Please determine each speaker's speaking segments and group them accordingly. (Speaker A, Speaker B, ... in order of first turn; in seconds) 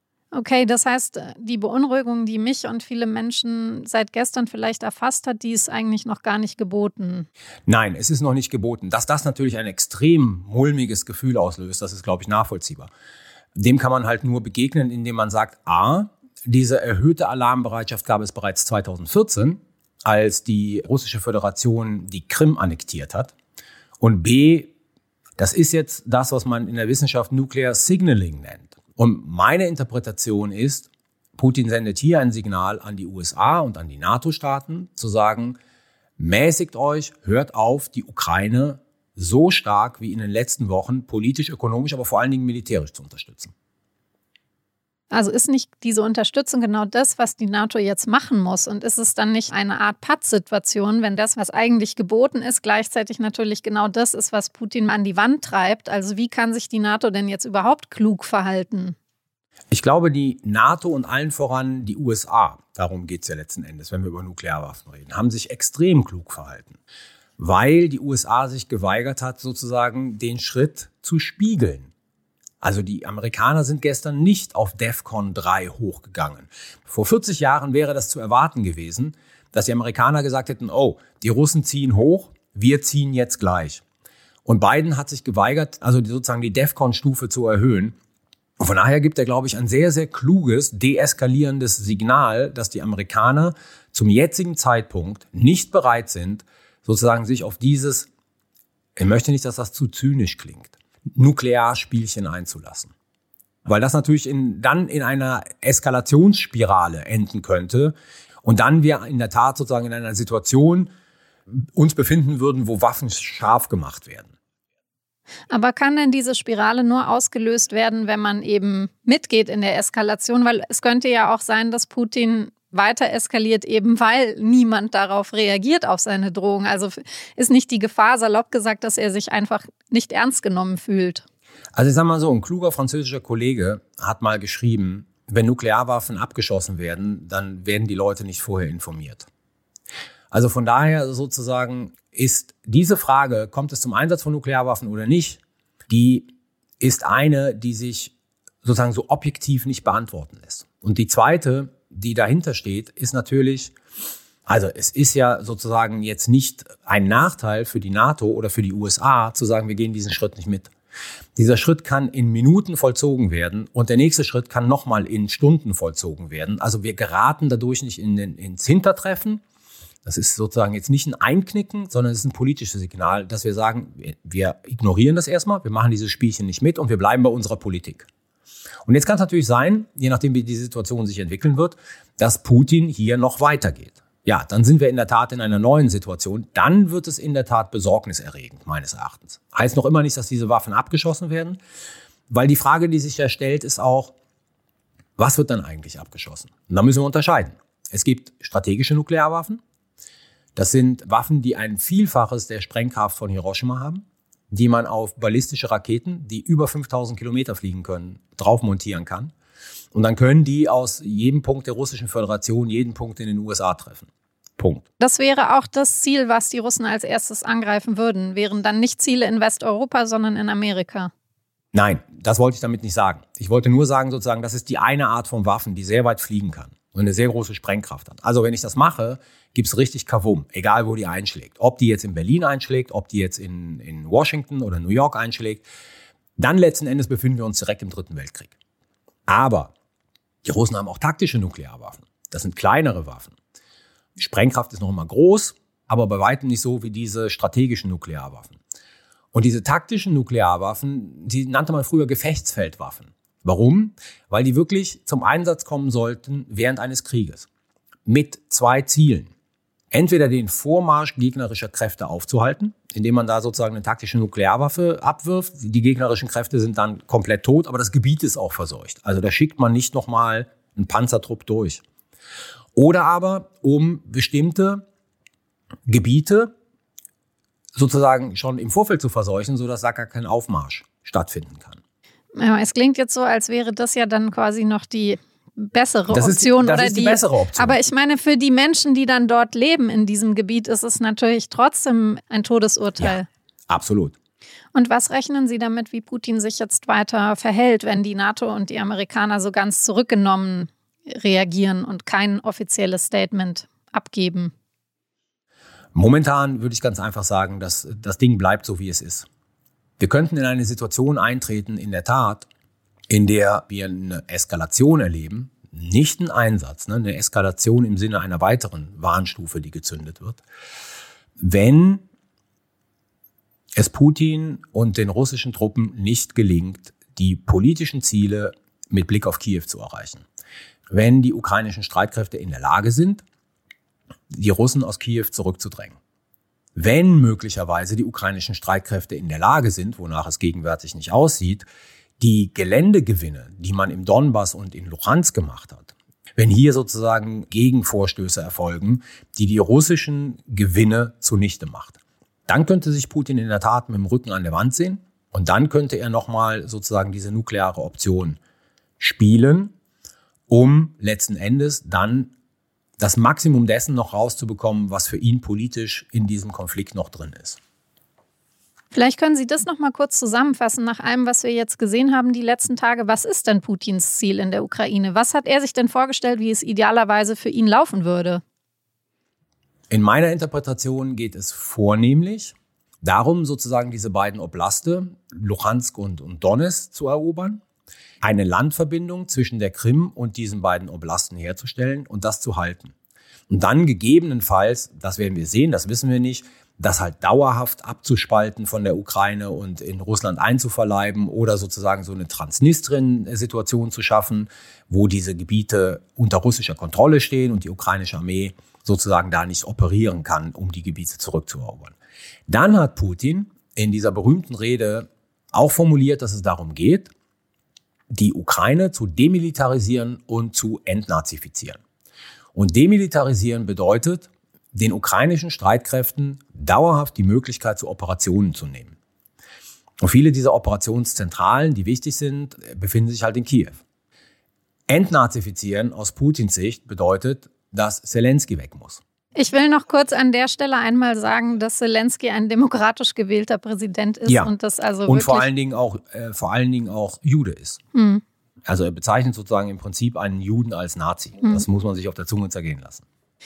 Speaker A: 0.3-7.3, 45.1-59.0, 115.5-131.2, 215.0-221.1, 282.3-293.3, 294.7-304.5, 368.9-378.4, 439.3-445.5, 447.9-448.2
Speaker B: 7.7-12.9, 13.5-23.3, 24.0-24.7, 25.4-35.6, 36.2-43.5, 59.7-66.8, 67.4-71.9, 72.6-83.8, 84.4-88.0, 88.6-98.1, 99.0-102.9, 103.7-110.9, 111.5-114.3, 131.7-139.3, 140.3-146.3, 146.8-153.7, 154.5-160.7, 161.3-169.4, 170.0-178.1, 178.8-191.6, 192.3-194.1, 195.2-199.6, 200.6-209.3, 209.9-214.8, 221.7-235.7, 236.4-238.5, 239.3-239.7, 240.4-243.3, 244.2-248.6, 249.3-257.5, 258.1-259.3, 259.9-271.8, 272.7-274.8, 275.9-276.5, 277.8-281.8, 286.1-287.8, 293.0-294.1, 305.9-309.3, 310.0-312.5, 313.1-320.4, 321.4-322.0, 323.8-330.2, 330.9-333.2, 334.3-336.0, 336.8-341.7, 342.2-358.4, 359.0-359.7, 360.5-362.3, 363.0-367.6, 379.9-387.6, 388.2-392.9, 393.5-411.9, 412.5-417.1, 418.1-421.8, 422.5-428.9, 430.0-433.8, 434.9-439.0, 444.2-444.5, 445.1-447.8, 448.6-453.0